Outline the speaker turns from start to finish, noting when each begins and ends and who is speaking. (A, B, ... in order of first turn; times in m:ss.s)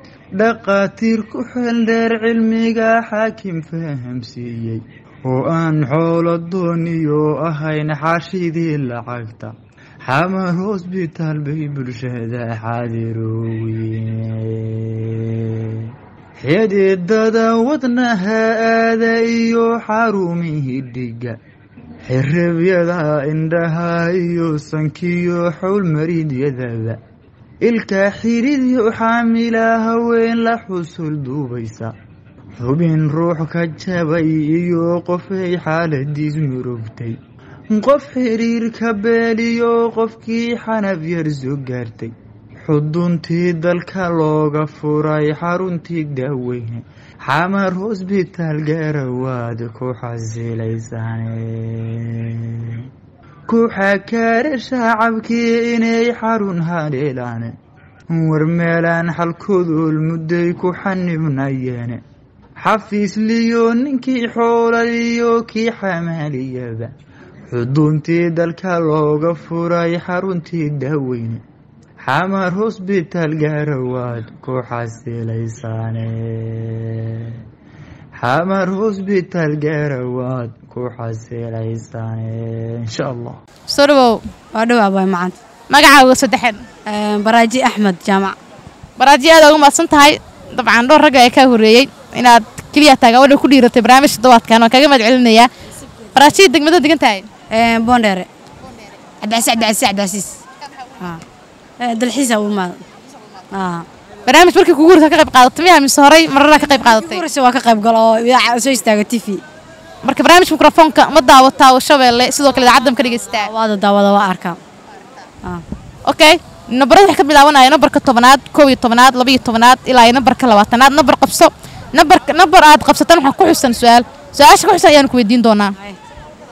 0:00.4-0:09.5 A
0:10.0-0:21.4 A
0:22.1-0:27.0 A
0:27.6-0:31.9 A
0:32.6-0:37.2 A
0:37.7-0:42.1 A
0:42.7-0:52.9 A
0:53.5-0:57.5 A
0:58.1-1:02.0 A
1:02.6-1:06.9 A
1:07.5-1:11.4 A
1:12.0-1:17.4 A
1:18.2-1:23.4 A
1:23.7-1:24.2 B
1:24.5-1:25.4 C
1:25.7-1:26.6 B
1:26.8-1:28.3 C
1:29.0-1:35.5 B
1:36.1-1:37.3 B
1:37.5-1:38.3 C
1:39.2-1:40.3 C
1:41.8-1:42.8 C
1:43.5-1:43.8 C
1:44.2-1:47.2 B
1:46.6-1:49.4 C
1:50.0-1:53.5 B
1:53.4-1:54.6 C
1:56.1-2:05.7 B